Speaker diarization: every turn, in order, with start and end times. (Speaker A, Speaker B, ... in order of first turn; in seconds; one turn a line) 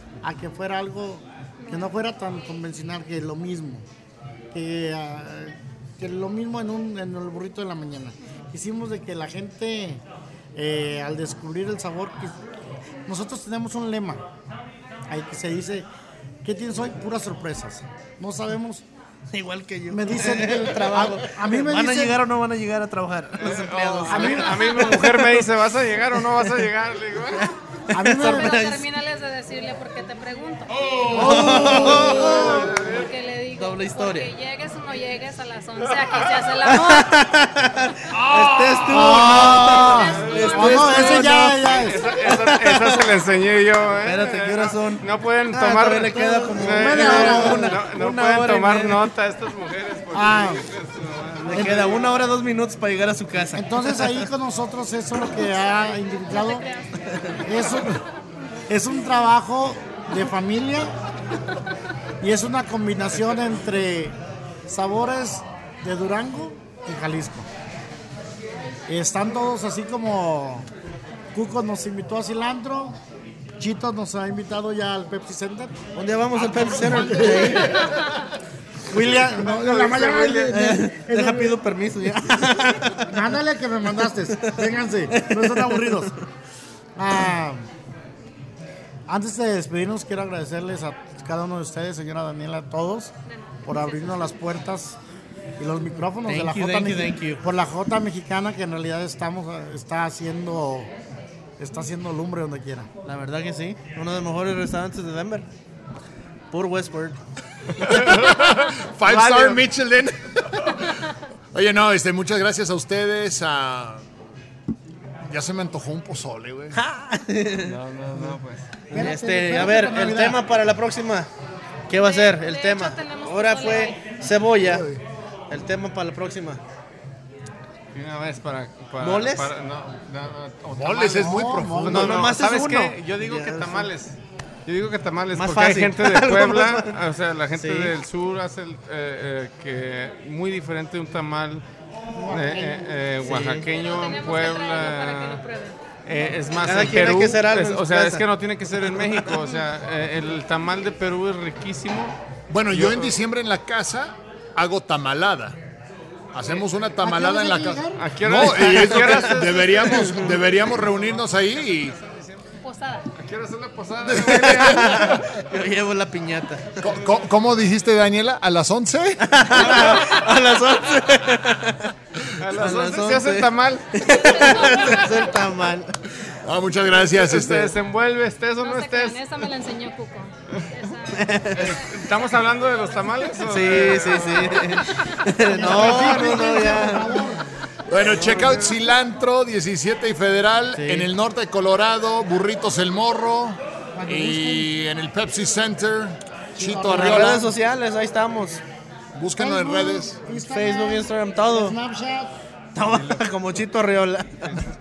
Speaker A: 0.2-3.9
Speaker B: 1.6-1.9
Speaker A: 4.5-10.0
Speaker A: 10.5-12.4
Speaker A: 13.1-14.2
Speaker A: 15.1-15.9
Speaker A: 16.4-18.8
Speaker C: 19.3-25.4
Speaker A: 19.9-22.2
Speaker D: 23.4-27.5
Speaker A: 24.1-25.4
Speaker C: 27.4-28.9
Speaker A: 27.9-28.7
Speaker B: 28.1-30.8
Speaker E: 30.7-32.5
Speaker C: 31.1-32.8
Speaker A: 31.1-32.4
Speaker D: 31.6-33.1
Speaker B: 32.0-37.2
Speaker C: 33.5-34.3
Speaker D: 35.8-36.8
Speaker C: 36.6-41.6
Speaker E: 38.1-40.0
Speaker A: 38.9-42.0
Speaker D: 39.9-52.0
Speaker B: 40.0-41.1
Speaker C: 42.1-43.1
Speaker C: 44.0-49.0
Speaker A: 46.1-47.8
Speaker A: 50.1-50.6
Speaker C: 51.4-54.3
Speaker A: 51.5-51.9
Speaker A: 53.5-56.7
Speaker B: 56.3-57.9
Speaker A: 57.4-58.0
Speaker A: 58.7-60.9
Speaker A: 62.2-67.5
Speaker A: 68.9-70.7
Speaker A: 71.3-73.0
Speaker A: 73.6-75.8
Speaker C: 75.9-77.9
Speaker A: 76.3-77.9
Speaker E: 76.9-78.0
Speaker A: 78.8-81.6
Speaker D: 78.9-80.6
Speaker C: 80.5-83.0
Speaker A: 83.0-86.1
Speaker C: 84.3-86.1
Speaker A: 87.0-87.6
Speaker A: 89.1-93.1
Speaker B: 93.3-94.3
Speaker A: 93.7-95.0
Speaker A: 95.6-100.9
Speaker C: 96.2-97.4
Speaker A: 101.6-102.9
Speaker C: 103.0-105.5
Speaker C: 106.5-107.2
Speaker D: 107.8-108.6
Speaker E: 107.8-111.0
Speaker A: 109.1-109.6
Speaker E: 111.5-114.0
Speaker E: 115.2-116.8
Speaker C: 116.7-118.4
Speaker D: 117.6-118.7
Speaker A: 118.9-120.4
Speaker C: 118.9-121.3
Speaker C: 121.9-124.9
Speaker B: 121.9-124.0
Speaker E: 124.6-125.0
Speaker C: 125.5-126.6
Speaker D: 127.9-141.6
Speaker C: 129.0-129.5
Speaker E: 130.7-132.3
Speaker A: 131.2-132.2
Speaker C: 131.8-133.9
Speaker C: 135.3-136.9
Speaker C: 137.6-137.9
Speaker A: 142.1-142.9
Speaker D: 142.3-145.4
Speaker C: 143.2-143.7
Speaker B: 143.7-146.0
Speaker D: 146.0-152.2
Speaker C: 146.6-148.2
Speaker C: 148.9-149.2
Speaker E: 152.5-155.6
Speaker D: 152.7-153.2
Speaker E: 156.3-161.9
Speaker A: 157.0-158.0
Speaker D: 157.9-162.5
Speaker C: 158.7-159.3
Speaker C: 159.9-160.3
Speaker B: 162.6-163.1
Speaker D: 163.1-165.3
Speaker E: 164.1-165.3
Speaker C: 164.2-166.9
Speaker E: 166.8-169.9
Speaker C: 169.3-171.9
Speaker D: 169.5-170.4
Speaker D: 172.4-174.7
Speaker C: 172.5-175.9
Speaker B: 174.1-175.3
Speaker E: 176.4-177.7
Speaker D: 177.1-179.2
Speaker B: 178.6-181.8
Speaker C: 181.1-181.7
Speaker D: 181.5-184.7
Speaker C: 183.5-187.2
Speaker B: 184.9-185.2
Speaker A: 185.5-187.4
Speaker E: 187.9-197.5
Speaker D: 188.2-188.6
Speaker C: 190.7-191.1
Speaker A: 193.9-194.7
Speaker A: 196.6-197.5
Speaker C: 196.8-198.6
Speaker E: 199.1-200.2
Speaker A: 199.4-202.3
Speaker C: 200.3-201.8
Speaker C: 202.7-204.6